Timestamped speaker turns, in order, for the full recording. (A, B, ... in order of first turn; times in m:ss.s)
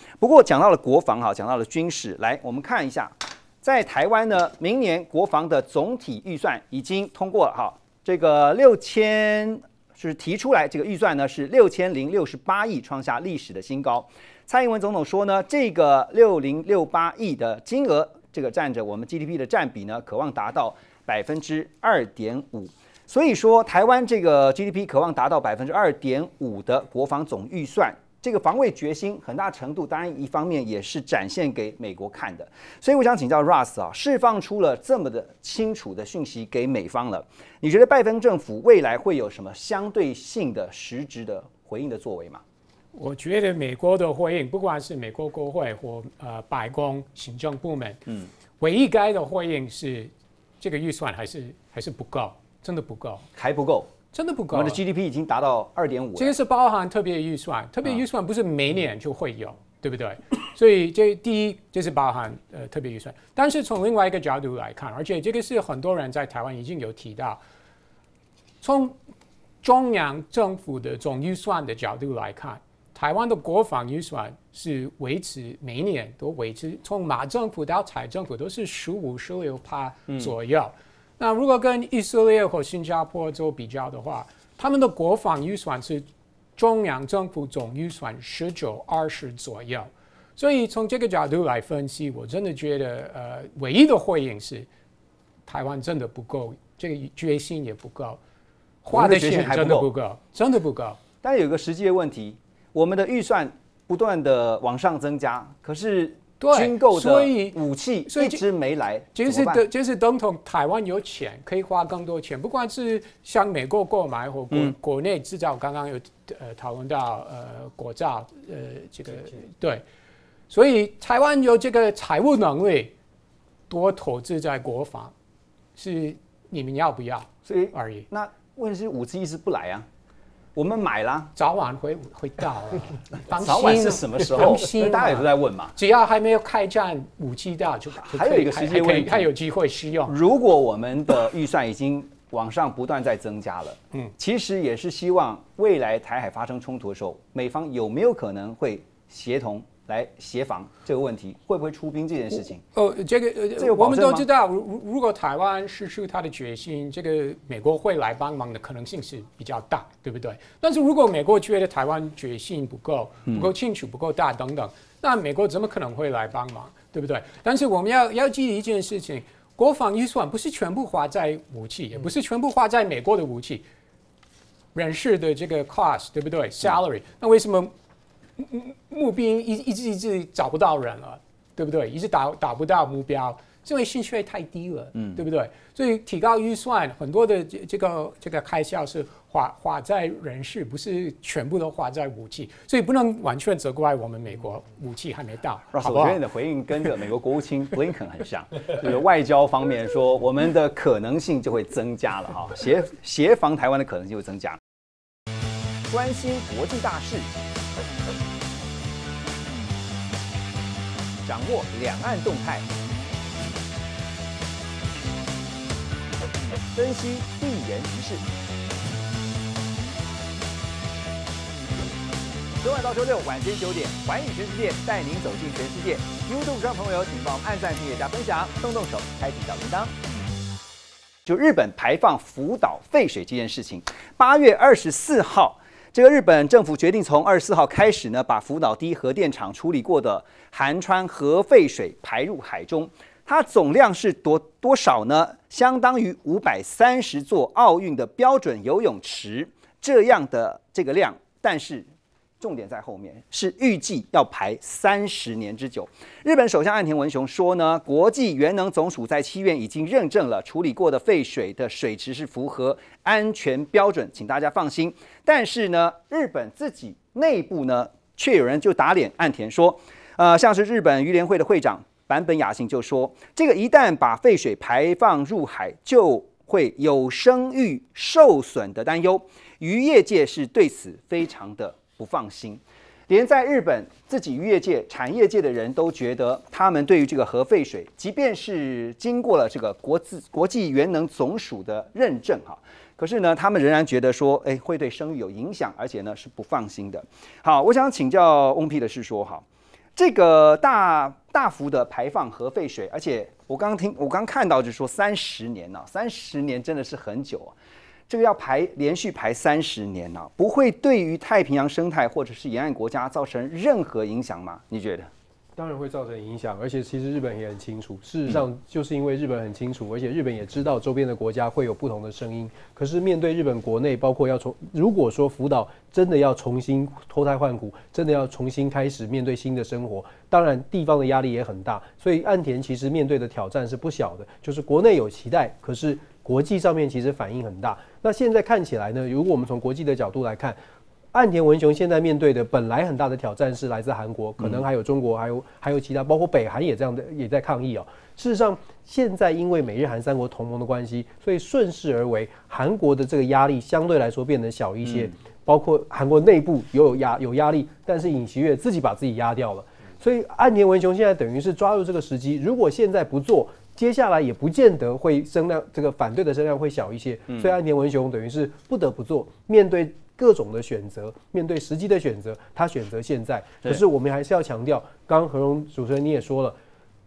0:00.2-0:42.4 A
0:42.9-0:48.0 B
0:48.6-0:53.3 B
0:53.4-0:53.9 A
0:54.1-0:54.8 B
0:54.5-0:56.4 A
0:56.2-1:07.4 B
1:08.6-1:09.0 B
1:09.6-1:34.7 B
1:20.1-1:20.3 A
1:35.5-1:38.2 B
1:38.8-1:41.0 B
1:38.9-1:39.9 A
1:41.2-1:49.6 A
1:46.4-1:48.4 B
1:49.2-1:59.8 B
2:00.5-2:02.9 B
2:03.7-2:05.1 B
2:05.8-2:08.1 B
2:07.5-2:09.9 A
2:10.6-2:11.3 A
2:11.4-2:20.2 B
2:13.4-2:15.8 A
2:18.0-2:19.3 A
2:20.0-2:32.6 A
2:32.7-2:53.6 B
2:33.6-2:34.3 A
2:43.3-2:43.5 A
2:54.8-2:57.7 B
2:58.4-3:16.2 B
3:05.0-3:05.2 A
3:15.7-3:24.6 A
3:25.9-3:27.4 A
3:31.2-3:32.7 A
3:36.8-3:38.2 A
3:42.6-3:49.9 A
3:51.3-4:11.9 A
4:12.4-4:59.4 A
5:00.0-5:07.6 A
5:08.1-5:15.1 A
5:15.6-5:40.6 C
5:41.1-6:16.6 C